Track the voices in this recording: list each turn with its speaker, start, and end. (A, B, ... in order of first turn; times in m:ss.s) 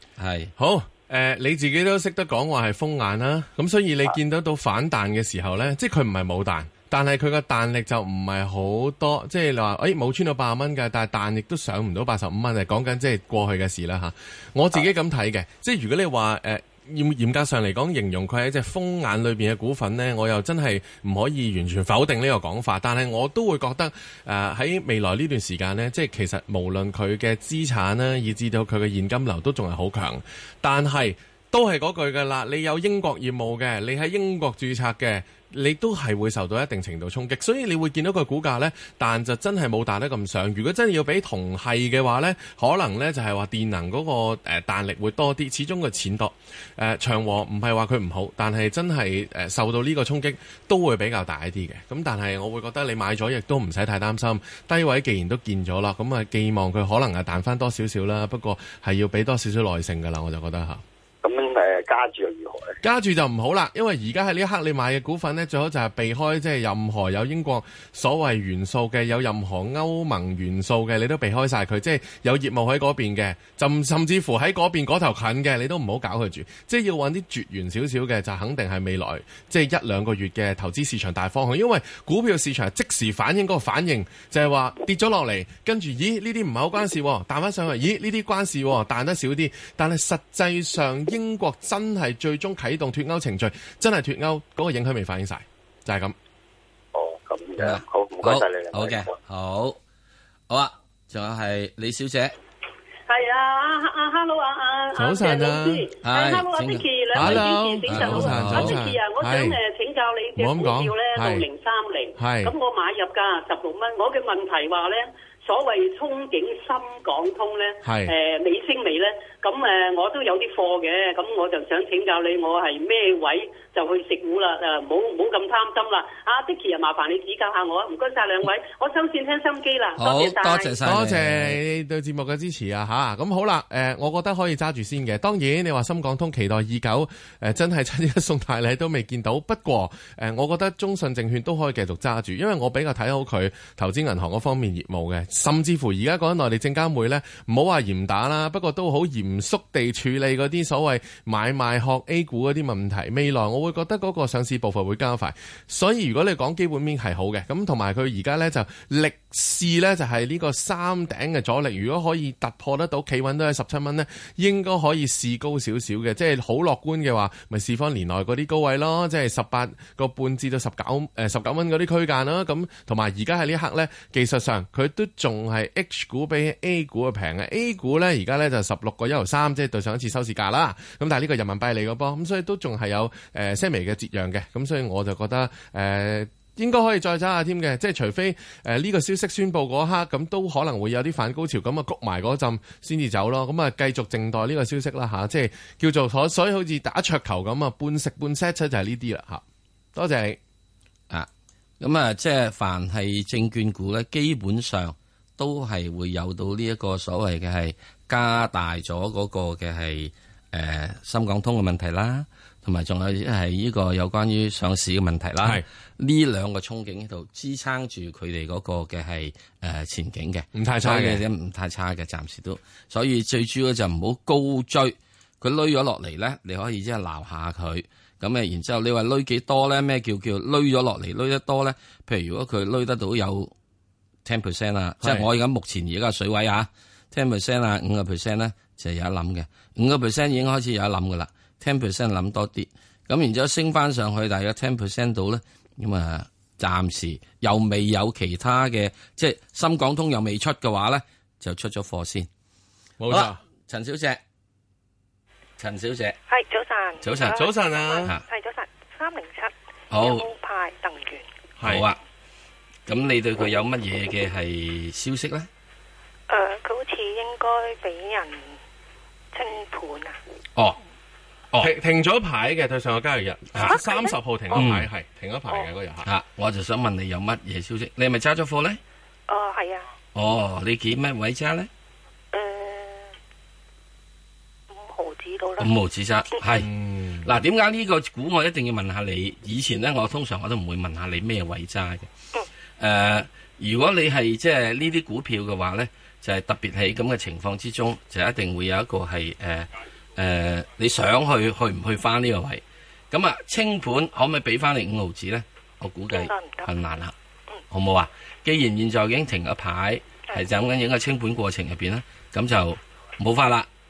0:00.2-0:00.5 A
0:00.6-1:00.8 B
1:01.2-1:02.8 C
1:02.8-1:36.2 B
1:36.9-1:39.1 C
1:37.6-1:39.8 A
1:40.5-1:42.4 A
1:43.1-2:10.8 D
1:45.0-1:45.9 B
1:46.0-1:48.8 A
1:47.1-1:49.6 B
1:50.4-1:51.5 B
1:52.2-1:52.5 B
1:57.8-1:58.1 B
2:10.0-2:11.6 A
2:10.8-3:19.4 B
3:20.0-3:20.4 B
3:21.8-3:53.5 A
3:40.6-3:41.2 B
3:54.2-4:12.3 A
4:13.0-4:13.4 B
4:13.1-4:14.2 A
4:15.6-4:16.2 A
4:16.3-4:21.3 E
4:17.0-4:17.4 A
4:17.2-4:18.2 B
4:19.9-4:20.2 A
4:21.6-4:21.9 B
4:21.6-4:22.0 A
4:22.9-4:25.5 A
4:26.3-4:28.6 E
4:29.3-4:30.2 E
4:31.6-4:36.1 B
4:33.6-4:34.6 E
4:34.5-4:34.9 A
4:36.0-4:38.8 A
4:39.3-4:39.9 E
4:40.2-4:41.7 A
4:42.3-4:43.1 E
4:44.7-4:45.7 E
4:45.6-4:46.7 A
4:46.6-4:47.3 B
4:47.2-4:52.1 A
4:52.8-5:07.1 A
5:06.1-5:06.7 E
5:07.7-5:13.7 A